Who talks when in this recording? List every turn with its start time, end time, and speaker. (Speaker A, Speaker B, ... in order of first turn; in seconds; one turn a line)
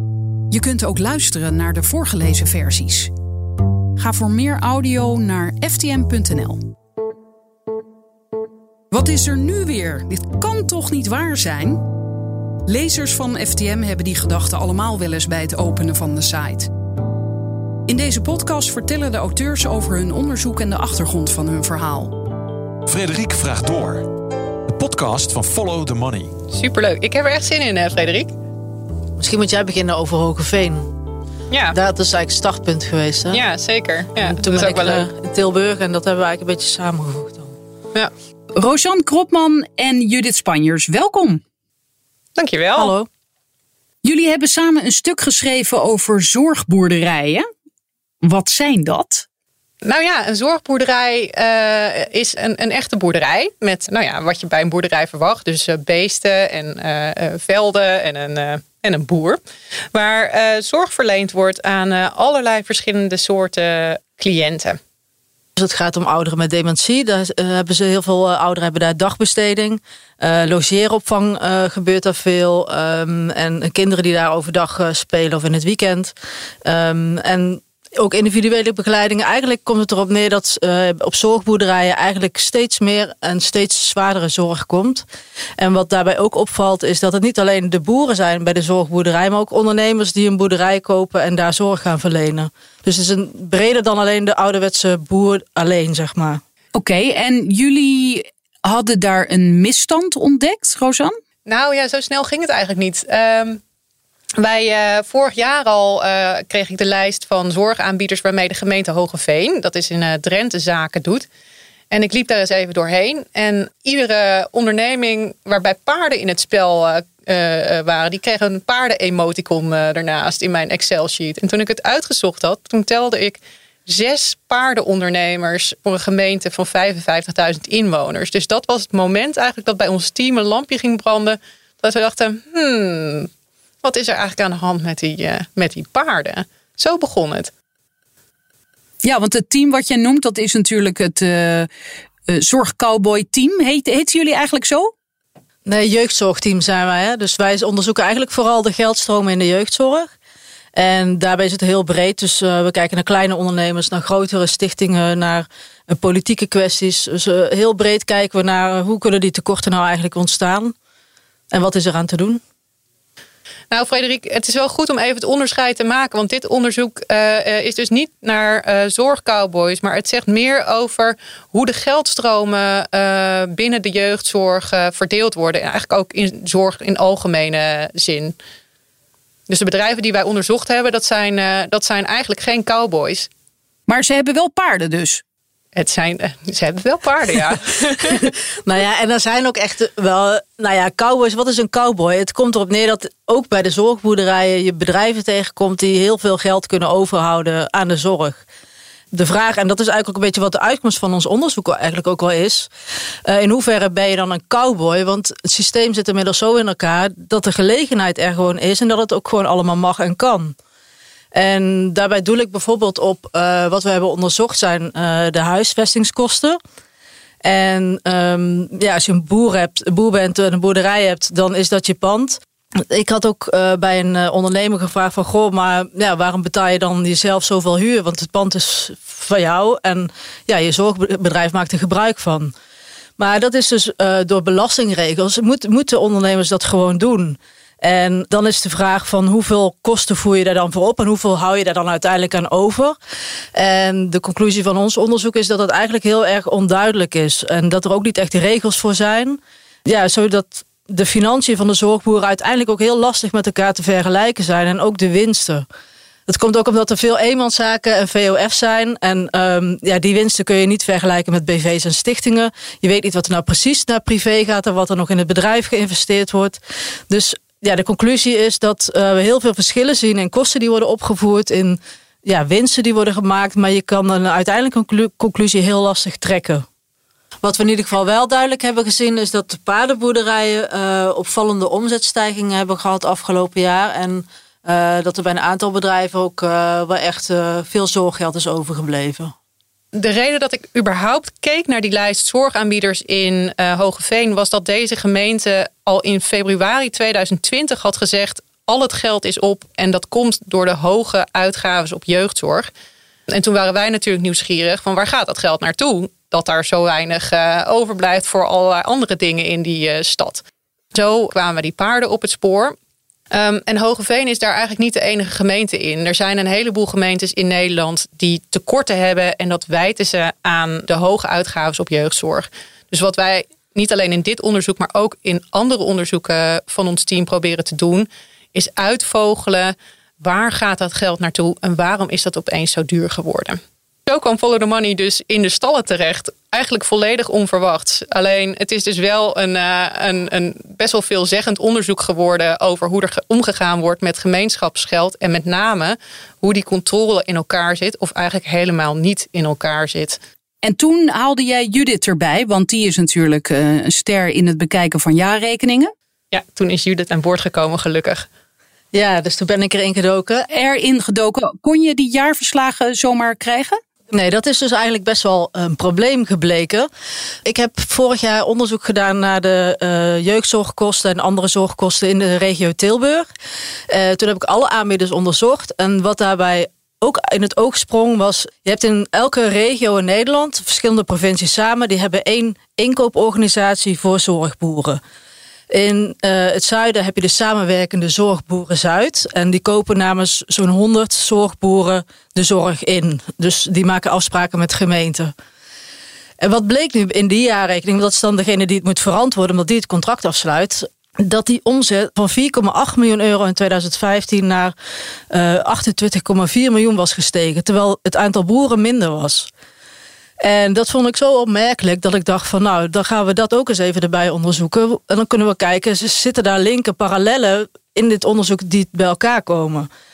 Speaker A: 0.5-3.1
Speaker A: 4.0-6.6
Speaker A: 8.9-11.8
Speaker A: 12.7-16.7
Speaker A: 17.9-22.2
Speaker B: 22.9-24.1
Speaker B: 24.7-26.4
Speaker C: 26.5-28.3
Speaker D: 29.2-30.9
Speaker C: 31.5-31.8
Speaker D: 31.7-33.4
Speaker C: 33.3-35.1
Speaker D: 34.2-37.5
Speaker A: 38.6-41.4
Speaker C: 42.4-43.0
Speaker D: 42.8-43.1
Speaker A: 44.0-47.5
Speaker A: 48.2-49.3
Speaker C: 49.8-59.4
Speaker C: 59.9-64.8
Speaker D: 65.6-76.1
Speaker D: 76.7-85.0
Speaker D: 85.6-96.4
Speaker A: 96.8-101.2
Speaker C: 101.5-103.6
Speaker C: 104.4-111.3
Speaker C: 111.9-133.3
Speaker C: 133.8-137.5
Speaker A: 139.0-141.7
Speaker A: 142.3-144.9
Speaker D: 145.7-150.1
Speaker D: 150.7-160.8
Speaker D: 161.5-162.4
Speaker C: 163.7-178.4
Speaker C: 179.5-183.3
Speaker A: 183.9-185.2
Speaker C: 185.8-188.3
Speaker D: 188.1-198.4
Speaker D: 199.1-202.7
Speaker D: 203.3-210.6
Speaker D: 211.3-216.6
Speaker D: 217.4-232.5
Speaker D: 233.2-243.0
Speaker D: 243.5-255.7
Speaker D: 256.3-276.7
Speaker D: 277.4-289.3
Speaker C: 289.9-302.7
Speaker C: 303.3-312.8
Speaker C: 313.3-350.2
Speaker A: 350.6-355.9
Speaker C: 356.3-358.3
Speaker D: 358.9-360.5
Speaker A: 360.5-363.8
Speaker D: 364.1-366.9
Speaker D: 367.4-373.3
Speaker D: 373.9-385.0
Speaker D: 385.7-395.3
Speaker D: 396.4-404.7
Speaker D: 405.3-409.5
Speaker D: 410.4-419.9